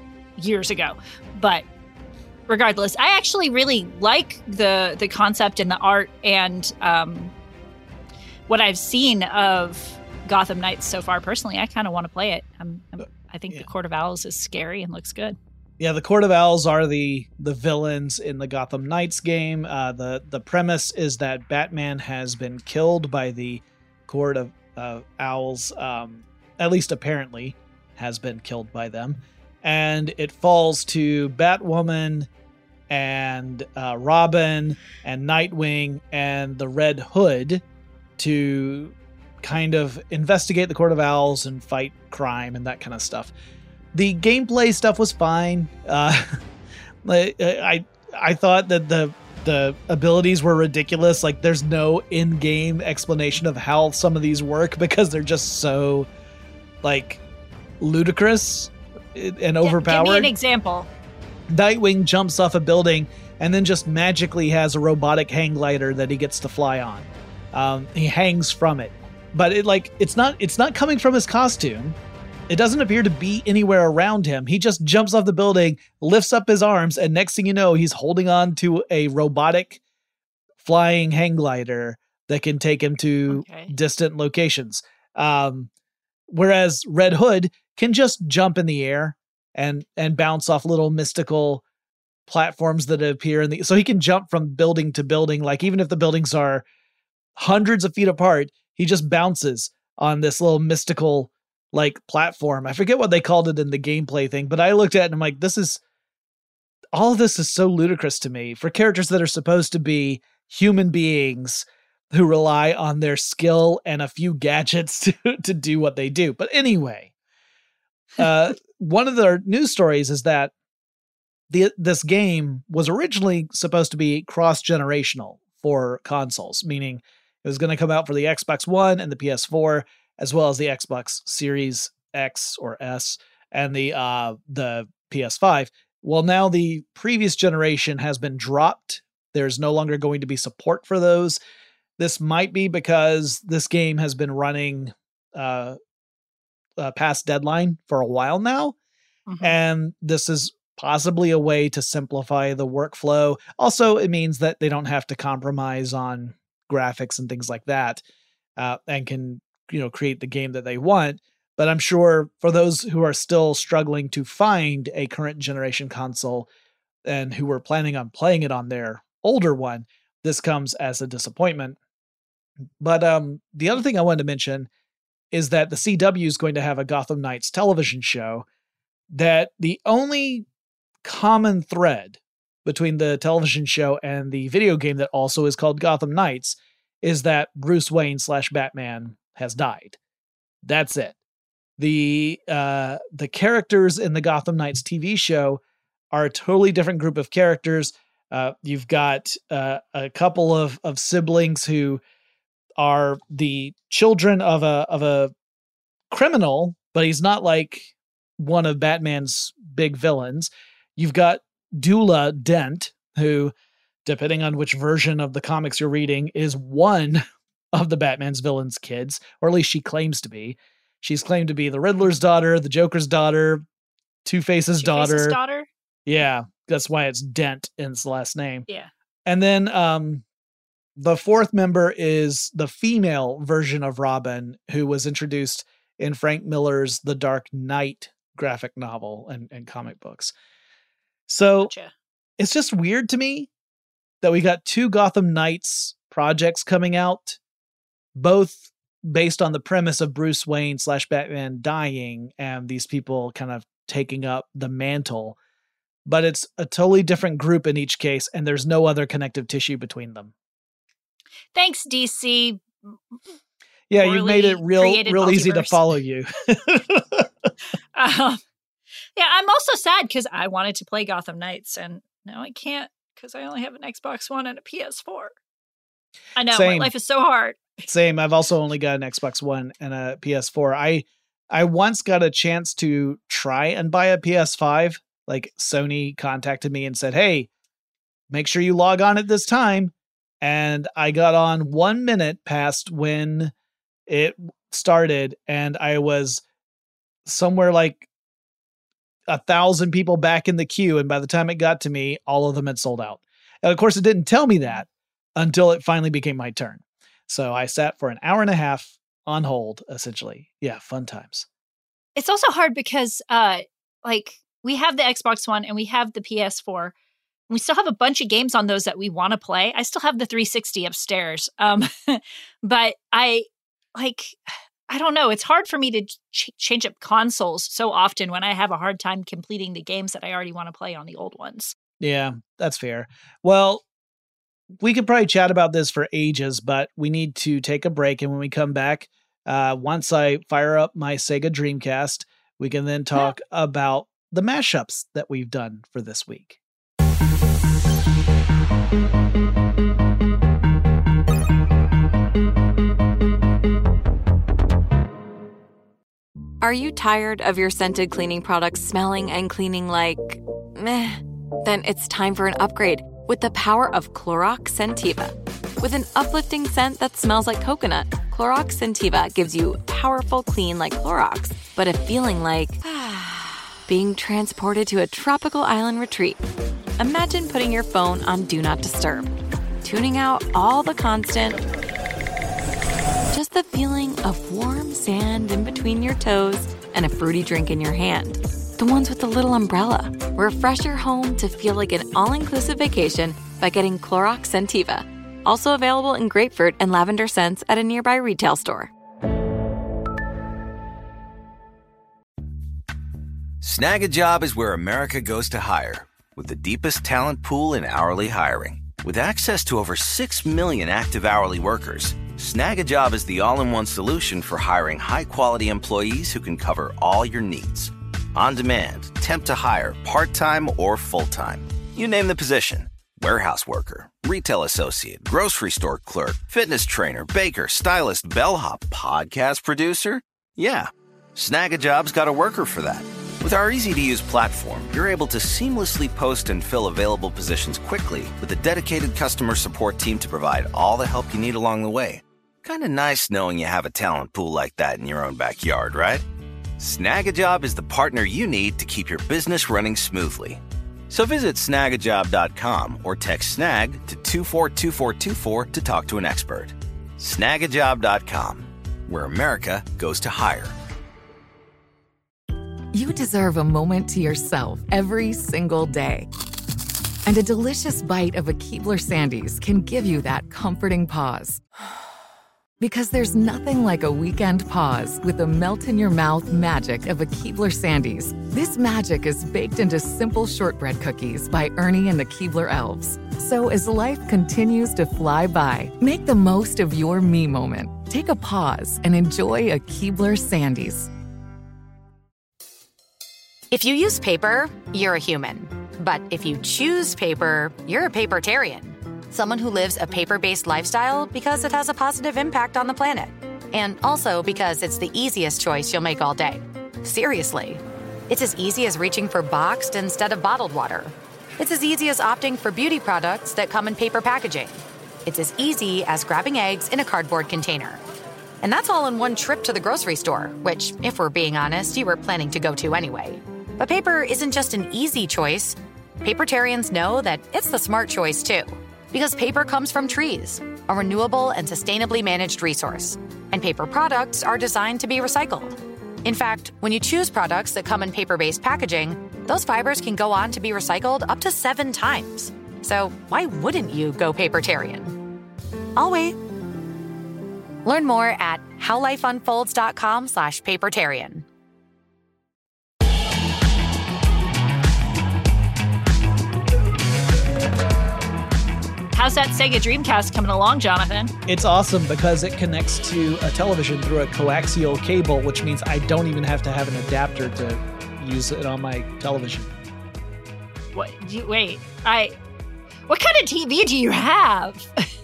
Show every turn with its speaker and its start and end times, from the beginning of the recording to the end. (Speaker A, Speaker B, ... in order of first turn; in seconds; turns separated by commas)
Speaker A: 0.4-1.6, Speaker A: 2.5-7.3, Speaker A: 8.5-15.4, Speaker B: 15.8-32.3, Speaker B: 32.9-37.6, Speaker B: 38.2-43.3, Speaker B: 43.9-46.4, Speaker B: 47.0-56.1, Speaker B: 56.8-57.2, Speaker B: 57.8-60.3, Speaker A: 59.6-60.9, Speaker B: 61.5-72.0, Speaker B: 72.5-79.8, Speaker B: 80.6-85.7, Speaker A: 83.3-83.7, Speaker B: 86.3-91.6, Speaker B: 92.3-96.6, Speaker B: 97.3-105.8, Speaker B: 106.9-117.1, Speaker B: 118.2-120.5, Speaker B: 121.5-141.4, Speaker B: 142.0-145.8, Speaker B: 146.8-148.8, Speaker A: 149.3-149.6, Speaker B: 149.4-158.0, Speaker B: 158.6-166.5, Speaker B: 167.0-171.8, Speaker B: 172.8-174.7, Speaker B: 175.3-178.4, Speaker B: 179.1-180.4, Speaker B: 181.0-190.0, Speaker B: 190.6-191.2, Speaker B: 191.8-195.6, Speaker B: 196.1-202.0, Speaker B: 202.8-205.3, Speaker B: 206.1-213.5, Speaker B: 214.0-223.6, Speaker B: 224.2-225.4, Speaker A: 224.8-225.7, Speaker B: 226.1-228.7, Speaker B: 229.2-230.2, Speaker B: 231.0-240.3, Speaker B: 241.3-241.7, Speaker A: 241.6-241.9, Speaker B: 242.4-243.5, Speaker B: 244.2-247.4, Speaker B: 248.2-255.4, Speaker B: 256.1-260.3, Speaker A: 261.5-262.9, Speaker B: 263.9-267.3, Speaker A: 264.0-265.8, Speaker A: 267.9-268.4, Speaker A: 269.1-275.3, Speaker A: 276.4-277.8, Speaker B: 276.5-276.9, Speaker B: 277.9-287.5, Speaker B: 288.3-293.5, Speaker B: 294.1-296.4, Speaker B: 297.2-298.1, Speaker B: 299.3-311.5, Speaker A: 312.1-316.9, Speaker A: 317.5-324.4, Speaker A: 324.9-331.8, Speaker B: 332.0-333.8, Speaker B: 334.8-346.6, Speaker C: 356.6-376.4, Speaker C: 377.0-381.6, Speaker C: 383.3-398.9, Speaker D: 403.6-446.2, Speaker D: 446.8-460.8, Speaker E: 462.9-466.3, Speaker E: 467.2-471.6, Speaker E: 472.8-491.1, Speaker F: 493.7-518.0, Speaker F: 518.6-545.2, Speaker F: 546.0-546.4, Speaker F: 547.8-551.4, Speaker A: 559.1-561.3, Speaker B: 561.5-569.7, Speaker A: 570.9-572.4, Speaker A: 573.1-574.9